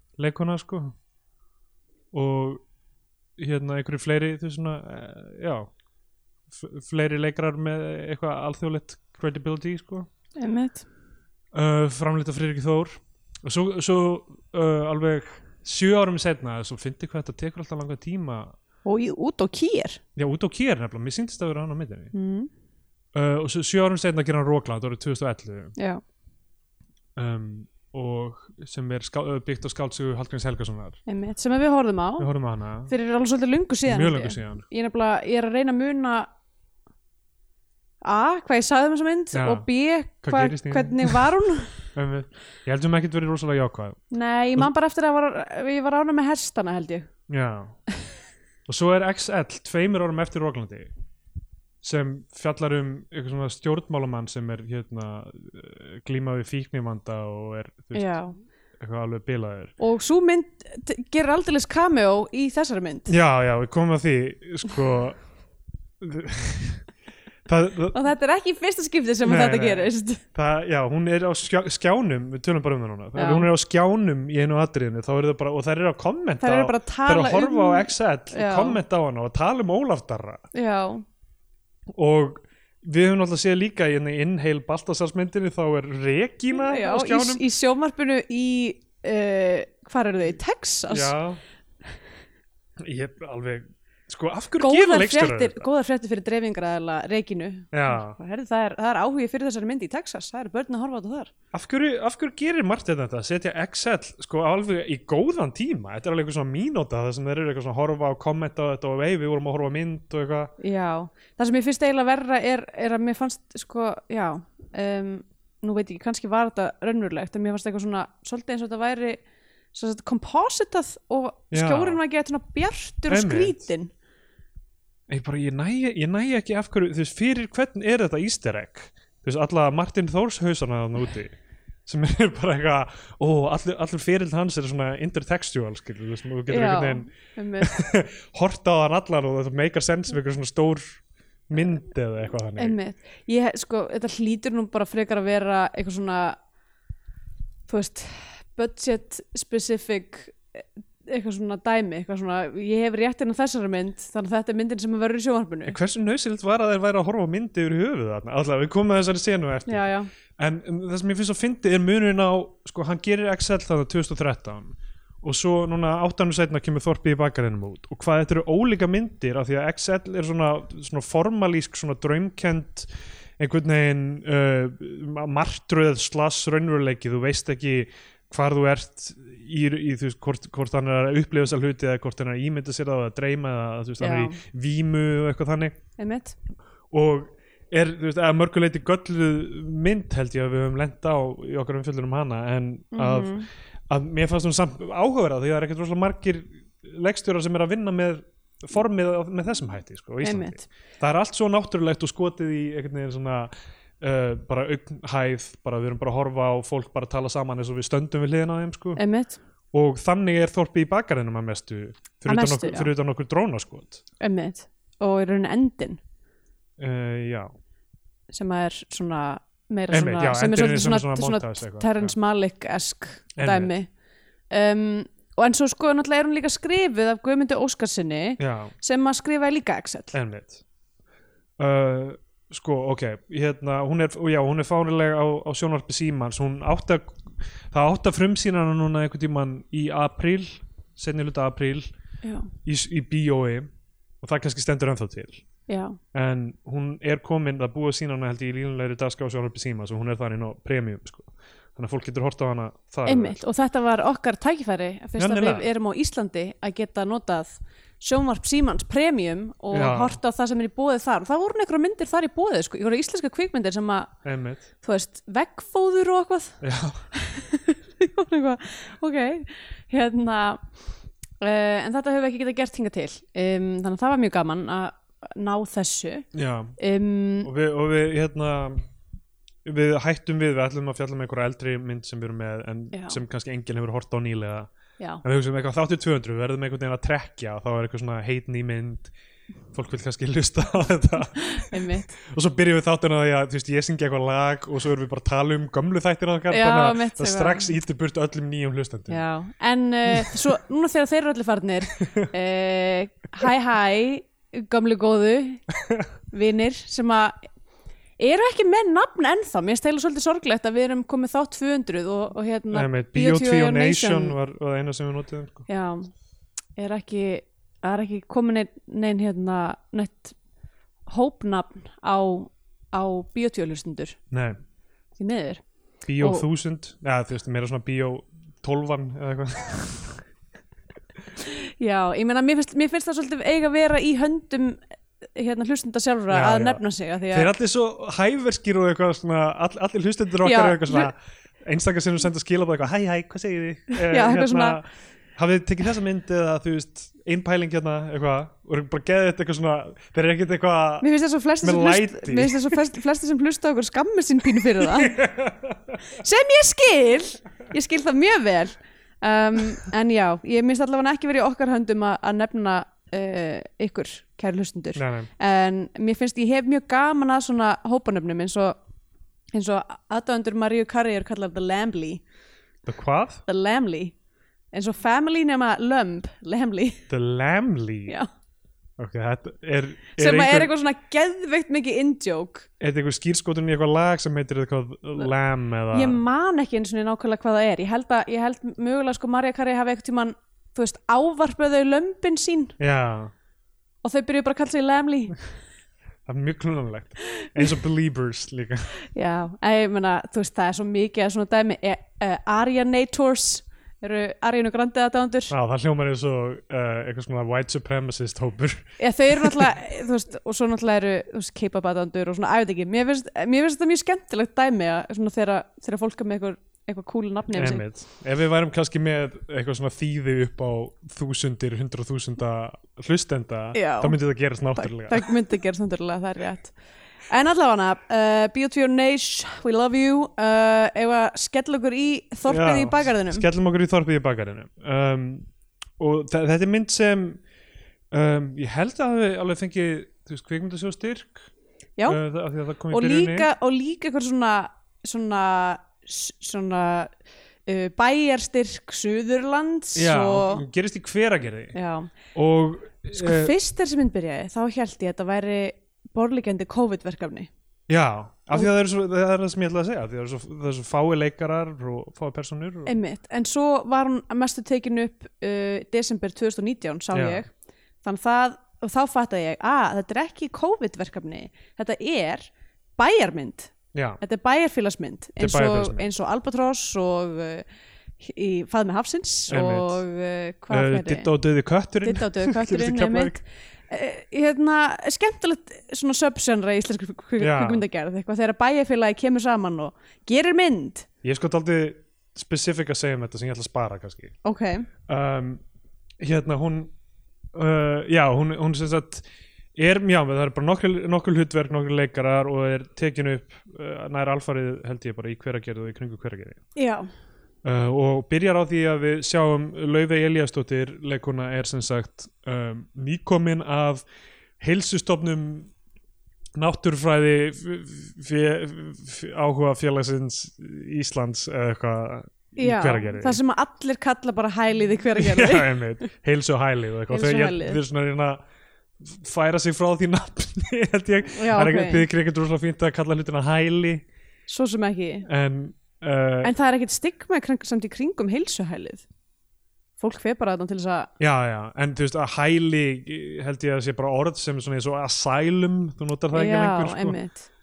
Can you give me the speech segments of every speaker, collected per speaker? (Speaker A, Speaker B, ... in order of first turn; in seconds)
Speaker A: 0.2-0.9, 2.1-2.6, 3.4-5.7, 6.5-10.1, 11.5-18.5, 20.1-22.1, 23.1-25.7, 27.1-31.0, 32.2-32.9, 33.9-34.6, 39.3-39.7, 40.2-41.2, 41.9-44.0, 47.3-47.8, 48.7-50.9, 51.8-58.2, 58.8-59.7, 63.1-65.2, 66.0-66.8, 67.5-68.0, 69.2-80.4, 81.9-87.4, 90.9-91.4, 92.8-95.7, 97.7-98.2, 101.5-110.5, 121.5-122.0, 123.1-123.6, 125.1-137.1, 137.6-142.8, 155.7-185.8, 186.9-209.0, 209.7-214.0, 216.8-217.5, 219.9-222.2, 223.3-223.7, 228.4-228.7, 230.1-230.6, 231.6-241.9, 242.6-243.7, 244.2-245.4, 246.1-253.4, 255.2-255.7, 259.7-260.2, 264.2-264.7, 266.6-267.0, 276.3-276.8, 277.4-278.8, 279.6-284.7, 285.2-289.1, 289.7-299.2, 300.1-300.4, 302.0-302.3, 312.7-315.6, 324.3-324.6, 326.1-330.2, 336.3-351.1, 351.6-352.8, 354.8-356.0, 364.9-365.3, 372.9-373.4, 377.1-378.2, 379.0-380.7, 382.8-386.2, 392.8-393.3, 396.2-398.9, 405.5-409.7, 417.5-425.3, 432.5-435.5, 436.0-437.4, 438.1-441.5, 442.1-443.5, 449.9-451.7, 452.3-453.5, 457.9-462.9, 467.1-467.4, 473.9-474.2, 475.4-476.1, 479.5-480.0, 480.7-483.4, 487.4-487.8, 491.2-494.3, 495.1-495.6, 496.2-496.9, 497.5-506.6, 507.6-514.0, 514.6-515.7, 516.5-523.4, 525.1-528.4, 529.0-534.0, 535.2-536.5, 541.2-547.2
Speaker B: 10.4-10.8, 18.8-20.0, 22.1-22.5, 25.8-26.0, 31.1-32.3, 32.9-36.3, 38.0-41.7, 44.1-47.1, 57.9-58.4, 59.8-63.1, 67.9-70.2, 73.2-73.5, 76.4-78.8, 80.5-81.0, 86.5-91.1, 94.6-101.3, 110.6-119.2, 119.7-123.9, 136.5-137.7, 142.6-146.4, 147.7-155.8, 159.7-160.1, 184.0-184.4, 186.0-186.3, 192.9-193.5, 200.2-200.6, 208.9-209.4, 212.3-212.9, 214.2-216.0, 218.3-223.9, 224.5-230.1, 242.2-242.5, 245.7-246.0, 253.1-264.1, 264.8-266.6, 267.1-270.6, 271.4-276.2, 276.8-277.5, 282.9-283.2, 291.3-292.1, 296.5-297.7, 299.1-305.6, 306.3-307.4, 308.2-314.3, 315.7-316.1, 316.8-320.4, 321.1-324.2, 325.1-325.6, 326.2-326.4, 331.4-334.8, 335.3-337.5, 340.4-341.1, 343.9-344.8, 351.0-355.2, 356.1-368.8, 369.5-372.2, 373.5-374.1, 374.7-377.0, 380.2-382.7, 385.9-392.8, 394.0-395.4, 399.1-405.5, 409.0-417.8, 423.7-424.1, 424.8-426.7, 427.3-433.4, 442.9-447.1, 447.6-450.6, 451.7-452.1, 453.1-457.5, 462.9-467.5, 468.0-477.6, 478.2-481.3, 482.0-491.1, 494.4-494.9, 506.8-507.1, 522.6-525.8, 527.1-527.8, 531.3-532.0, 534.5-535.3, 536.4-539.0, 540.0-541.1, 546.3-547.5